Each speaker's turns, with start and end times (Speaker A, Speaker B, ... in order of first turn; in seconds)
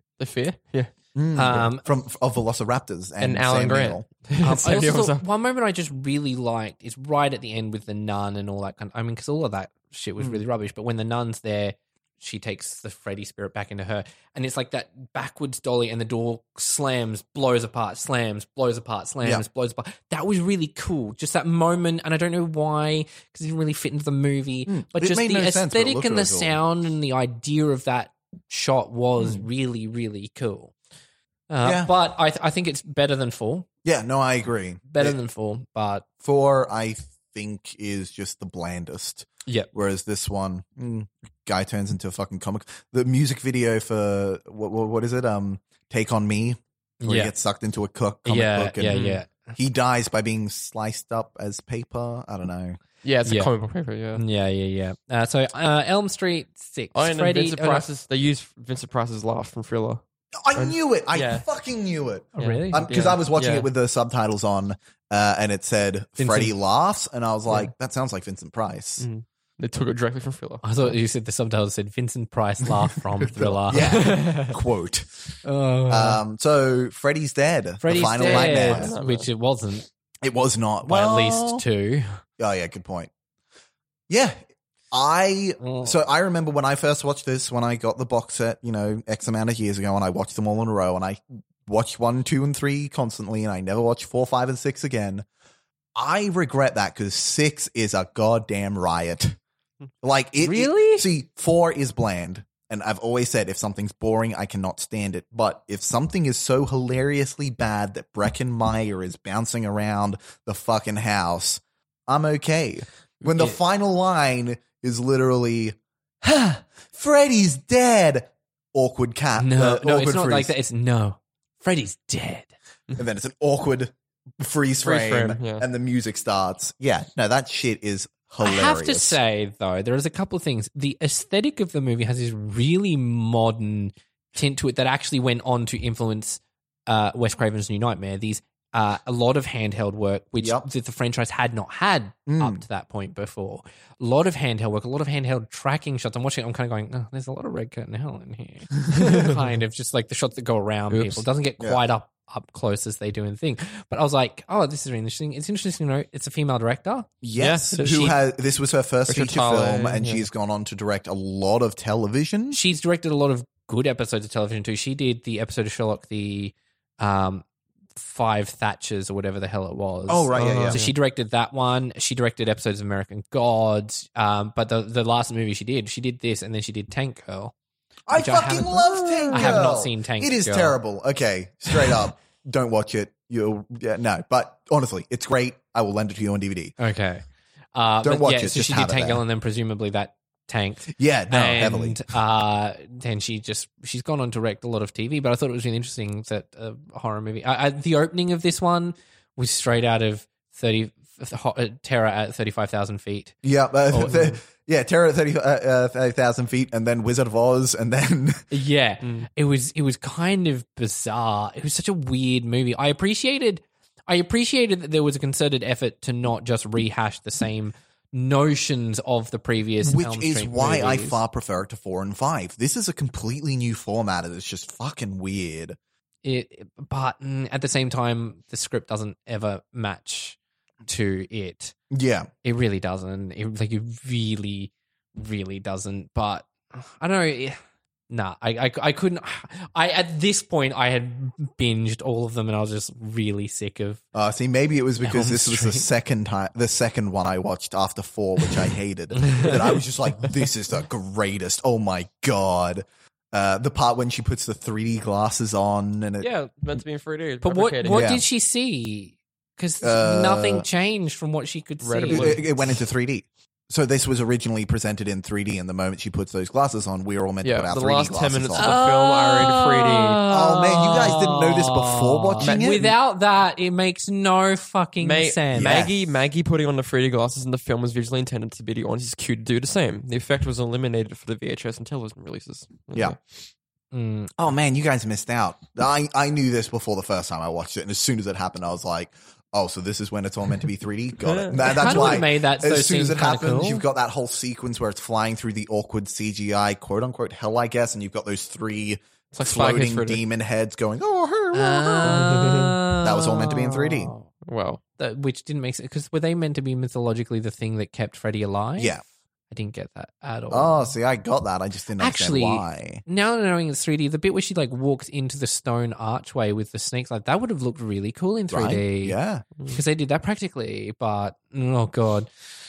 Speaker A: 0.2-0.9, 3.2-5.2, 48.9-49.2, 53.0-54.2, 57.0-60.0, 60.5-61.5, 62.4-63.7, 69.0-71.0, 73.8-74.5, 78.1-79.3, 124.8-125.7, 150.9-151.2, 157.7-158.1, 159.1-160.3, 170.4-170.9, 179.3-179.7, 209.0-209.3, 256.2-258.0, 261.8-262.4, 267.4-270.3, 275.0-283.2, 291.2-292.3, 299.3-300.2, 302.0-302.7, 304.4-304.8
Speaker B: 1.1-4.1, 24.7-26.6, 29.2-29.4, 31.6-31.9, 33.9-35.2, 36.2-52.8, 60.5-69.1, 73.3-75.1, 75.9-78.9, 80.2-81.6, 82.4-83.1, 84.1-84.4, 84.9-95.2, 96.0-99.4, 100.0-120.5, 123.0-129.2, 140.4-140.7, 142.3-142.6, 157.2-162.6, 170.1-170.8, 178.1-186.7, 188.0-189.2, 190.9-192.0, 203.4-208.4, 219.8-225.8, 231.9-232.3, 244.1-256.3, 257.9-258.2, 259.8-260.7, 262.1-268.8, 270.3-272.9, 275.5-276.0, 284.4-302.4, 303.0-304.1, 308.8-309.0, 310.5-313.0, 318.5-319.4
Speaker C: 1.4-1.9, 4.4-30.7, 31.5-33.7, 34.9-36.0, 47.0-47.3, 48.2-49.5, 53.3-53.5, 54.1-57.9, 62.4-63.0, 66.2-66.5, 70.6-74.3, 75.4-76.2, 77.8-79.9, 80.8-82.2, 85.6-86.0, 100.4-101.1, 119.4-122.5, 128.4-158.1, 162.5-167.4, 168.0-177.5, 178.1-180.8, 186.8-187.2, 187.8-203.4, 203.9-204.3, 208.5-221.2, 226.2-231.8, 232.4-237.6, 238.1-244.0, 245.0-245.9, 257.4-262.5, 268.6-275.8, 283.9-284.3, 291.8-293.8, 301.5-304.3, 305.0-308.9, 309.5-310.9, 312.0-322.3